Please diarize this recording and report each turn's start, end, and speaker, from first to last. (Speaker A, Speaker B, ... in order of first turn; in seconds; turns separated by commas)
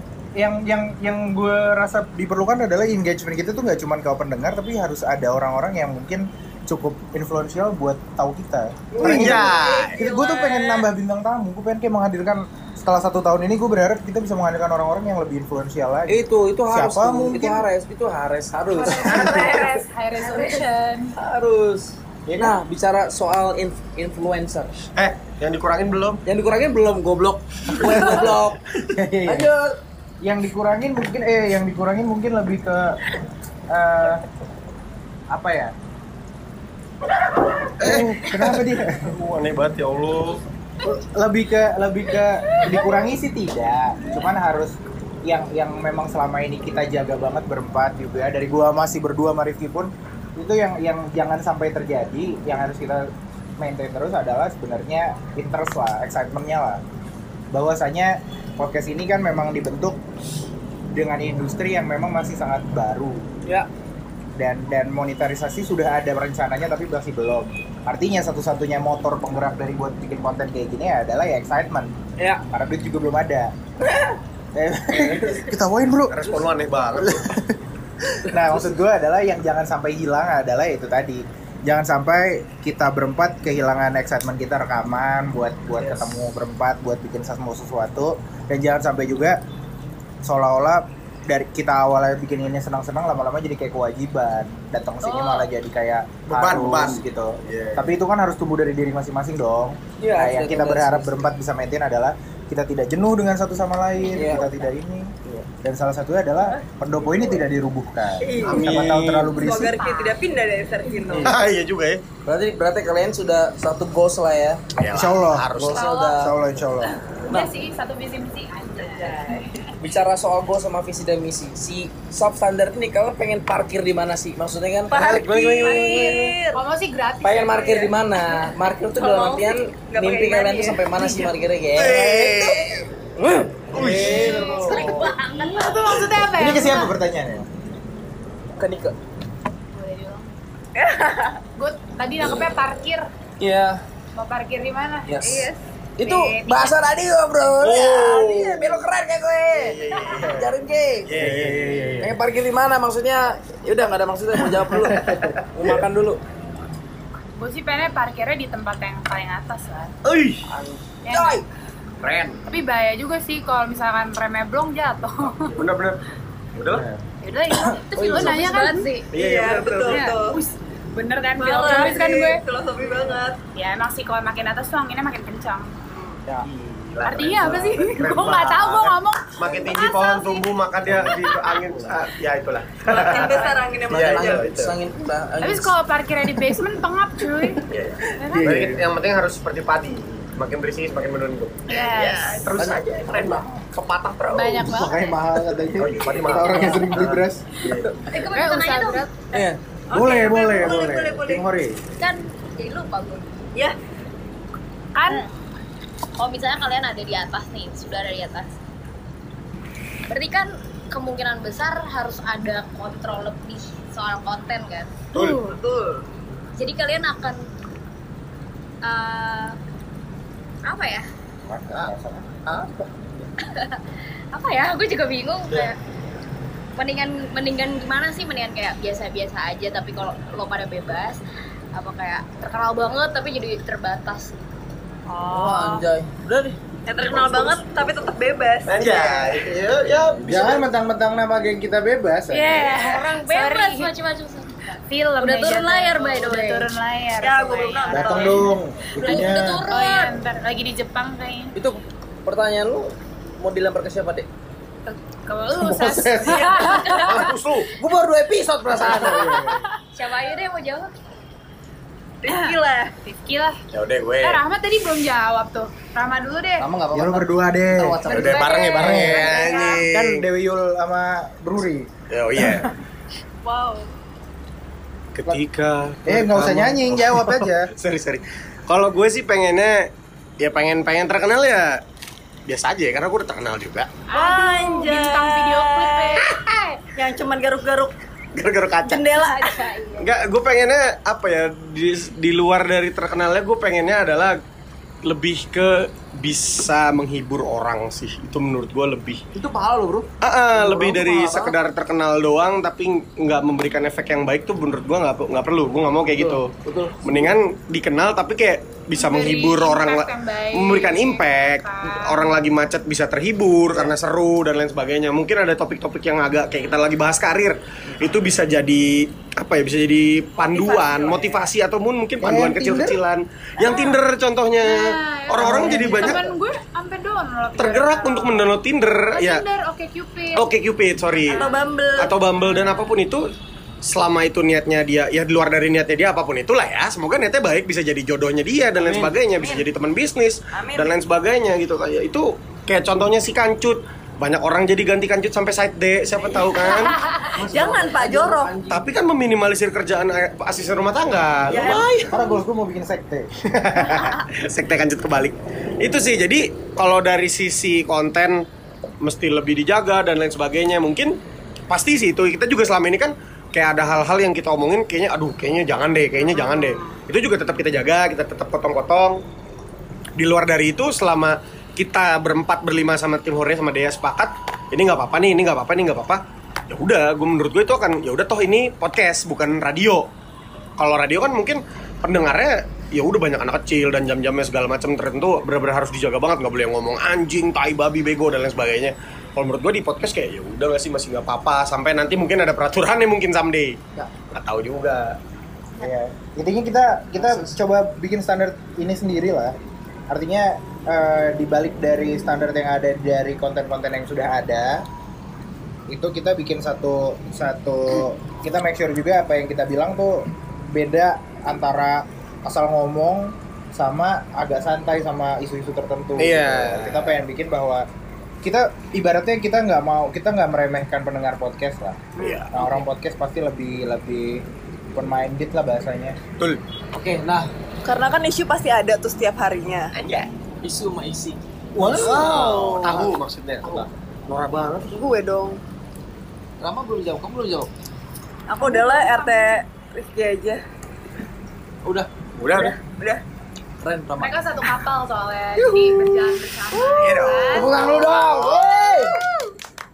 Speaker A: 0.4-17.7, Speaker B: 9.0-9.4, Speaker C: 9.0-10.0, Speaker D: 9.3-9.8, Speaker E: 10.1-10.6, Speaker B: 16.1-20.6, Speaker D: 18.7-21.1, Speaker B: 21.1-24.7, Speaker A: 22.3-22.6, Speaker C: 25.0-26.2, Speaker B: 26.2-28.6, Speaker A: 27.9-28.2, Speaker A: 28.9-29.5, Speaker B: 29.2-29.7, Speaker A: 30.2-33.0, Speaker A: 33.7-34.2, Speaker A: 35.3-35.7, Speaker C: 37.8-40.4, Speaker A: 37.8-39.1, Speaker A: 40.8-53.1, Speaker A: 53.6-56.8, Speaker A: 57.5-60.0, Speaker A: 60.9-63.2, Speaker A: 64.4-71.9, Speaker A: 72.5-73.5, Speaker A: 74.6-76.3, Speaker B: 75.0-75.5, Speaker C: 76.1-77.3, Speaker A: 77.0-77.5, Speaker A: 78.3-89.4, Speaker B: 78.3-78.7, Speaker A: 90.2-105.1, Speaker D: 95.0-95.5, Speaker C: 96.3-97.9, Speaker B: 100.0-101.3, Speaker B: 104.1-104.5, Speaker A: 105.6-109.8, Speaker E: 108.2-111.4, Speaker C: 108.4-109.3, Speaker D: 109.5-110.2, Speaker C: 111.2-112.0, Speaker B: 112.3-114.6, Speaker C: 114.8-115.8, Speaker A: 114.9-115.6, Speaker B: 115.6-116.4, Speaker D: 115.8-116.2, Speaker A: 116.2-116.9, Speaker D: 117.3-119.6, Speaker E: 118.7-119.5, Speaker B: 119.8-126.3, Speaker E: 124.9-126.6, Speaker D: 125.6-127.9, Speaker B: 127.2-132.3, Speaker E: 129.0-130.9, Speaker D: 131.0-131.3, Speaker C: 131.8-132.6, Speaker E: 132.0-132.6, Speaker B: 133.2-134.4, Speaker C: 133.7-134.9, Speaker F: 134.1-135.8, Speaker D: 134.1-136.9, Speaker A: 136.3-137.5, Speaker B: 138.6-138.9, Speaker D: 139.7-140.3, Speaker E: 140.8-141.4, Speaker D: 141.6-143.1, Speaker B: 143.4-143.8, Speaker D: 144.2-145.2, Speaker B: 145.1-151.1, Speaker E: 145.2-145.6, Speaker D: 146.0-146.8, Speaker C: 147.6-148.8, Speaker C: 149.5-150.4, Speaker C: 151.1-152.1, Speaker A: 151.2-152.1, Speaker B: 152.0-156.2, Speaker D: 157.4-159.9, Speaker C: 160.0-160.4, Speaker B: 160.5-161.4, Speaker D: 161.1-161.4, Speaker C: 162.0-162.4, Speaker D: 162.5-165.6, Speaker C: 165.5-166.0, Speaker C: 166.6-166.8, Speaker A: 166.7-167.0, Speaker D: 167.2-169.0, Speaker B: 167.9-168.6, Speaker F: 168.1-169.1, Speaker C: 169.1-170.0, Speaker E: 169.2-170.4, Speaker D: 169.8-172.4, Speaker E: 171.4-173.4, Speaker D: 173.5-175.8, Speaker E: 175.9-176.2, Speaker C: 176.4-184.8, Speaker D: 177.0-180.5, Speaker D: 181.2-181.5, Speaker E: 183.0-184.4, Speaker D: 183.2-183.6, Speaker B: 183.9-185.7, Speaker D: 185.4-187.6, Speaker C: 187.7-191.8, Speaker D: 188.2-188.6, Speaker A: 188.3-188.8, Speaker D: 191.7-192.5, Speaker E: 191.8-192.4, Speaker C: 192.3-194.7, Speaker B: 192.6-193.5, Speaker D: 194.3-195.3, Speaker A: 194.7-197.4, Speaker C: 195.8-197.9, Speaker F: 198.1-199.1, Speaker D: 198.2-199.2, Speaker B: 199.3-199.6, Speaker E: 199.9-201.5, Speaker A: 199.9-201.8, Speaker F: 202.0-203.3, Speaker D: 204.9-205.2, Speaker F: 206.2-208.5, Speaker F: 210.1-215.1, Speaker C: 215.1-215.4, Speaker E: 215.1-216.0, Speaker F: 216.6-217.4, Speaker F: 218.8-219.6, Speaker F: 220.7-221.1, Speaker A: 221.5-222.4, Speaker F: 223.5-223.8, Speaker F: 224.3-225.8, Speaker F: 226.8-231.2, Speaker F: 231.8-234.4, Speaker D: 235.1-235.8, Speaker B: 235.3-236.6, Speaker E: 236.9-239.1, Speaker C: 237.2-237.4, Speaker C: 238.7-240.7, Speaker A: 240.2-242.7, Speaker D: 242.3-243.9, Speaker F: 242.7-244.6, Speaker D: 244.9-248.5, Speaker F: 245.2-246.7, Speaker E: 247.2-248.4, Speaker A: 247.9-249.6, Speaker F: 249.0-250.1, Speaker D: 249.1-251.6, Speaker B: 251.6-254.3, Speaker D: 255.3-257.3, Speaker A: 255.7-256.1, Speaker F: 256.6-257.2, Speaker C: 257.0-257.7, Speaker B: 257.8-259.3, Speaker A: 259.1-259.6, Speaker D: 259.3-259.6, Speaker F: 259.9-260.9, Speaker E: 262.2-262.9, Speaker D: 262.3-263.6, Speaker C: 263.7-264.4, Speaker D: 264.2-266.7, Speaker B: 266.6-268.5, Speaker A: 266.9-268.1, Speaker D: 268.1-269.9, Speaker C: 268.1-270.2, Speaker A: 268.8-269.3, Speaker A: 269.8-272.7, Speaker C: 272.1-272.7, Speaker D: 273.4-273.9, Speaker C: 275.1-279.9, Speaker A: 276.1-277.7, Speaker C: 280.4-281.8, Speaker C: 282.5-284.0, Speaker D: 284.1-286.8, Speaker E: 284.1-286.2, Speaker E: 287.0-287.9, Speaker C: 288.4-289.1, Speaker E: 289.0-289.4, Speaker F: 289.3-290.1, Speaker C: 290.0-294.4, Speaker C: 295.1-299.2, Speaker B: 299.4-301.5, Speaker C: 300.2-306.5, Speaker B: 306.2-307.4, Speaker C: 307.0-326.3, Speaker D: 308.9-312.3, Speaker D: 320.4-321.5, Speaker A: 322.2-323.0, Speaker D: 323.6-324.0, Speaker D: 324.6-328.5, Speaker A: 325.4-326.2, Speaker C: 327.6-329.4, Speaker D: 329.1-330.4, Speaker C: 330.4-331.4, Speaker D: 331.2-331.7, Speaker E: 331.4-332.2, Speaker C: 332.0-333.2, Speaker D: 332.3-333.0, Speaker C: 333.8-347.0, Speaker B: 338.8-339.6, Speaker E: 340.5-340.9, Speaker D: 346.9-347.3, Speaker B: 347.3-348.9, Speaker E: 347.5-348.5, Speaker C: 348.7-352.0, Speaker E: 351.5-352.1, Speaker A: 352.1-353.3, Speaker C: 353.6-358.4, Speaker C: 359.0-361.2, Speaker C: 361.7-369.2, Speaker C: 370.2-380.1, Speaker C: 380.8-395.2, Speaker A: 395.8-399.6, Speaker B: 397.2-397.5, Speaker A: 400.1-404.9, Speaker A: 405.9-417.9, Speaker C: 416.2-417.1, Speaker A: 418.4-426.2, Speaker E: 422.2-422.4, Speaker C: 422.2-422.5, Speaker B: 426.9-427.5, Speaker E: 427.9-429.9, Speaker B: 430.6-432.2, Speaker C: 431.8-434.9, Speaker E: 431.9-432.8, Speaker E: 434.9-435.6, Speaker B: 436.6-437.7, Speaker E: 438.5-440.6, Speaker D: 438.6-439.6, Speaker C: 442.4-442.8, Speaker E: 442.6-443.2, Speaker B: 443.8-444.4, Speaker D: 444.2-447.8, Speaker C: 447.0-448.7, Speaker B: 447.5-449.2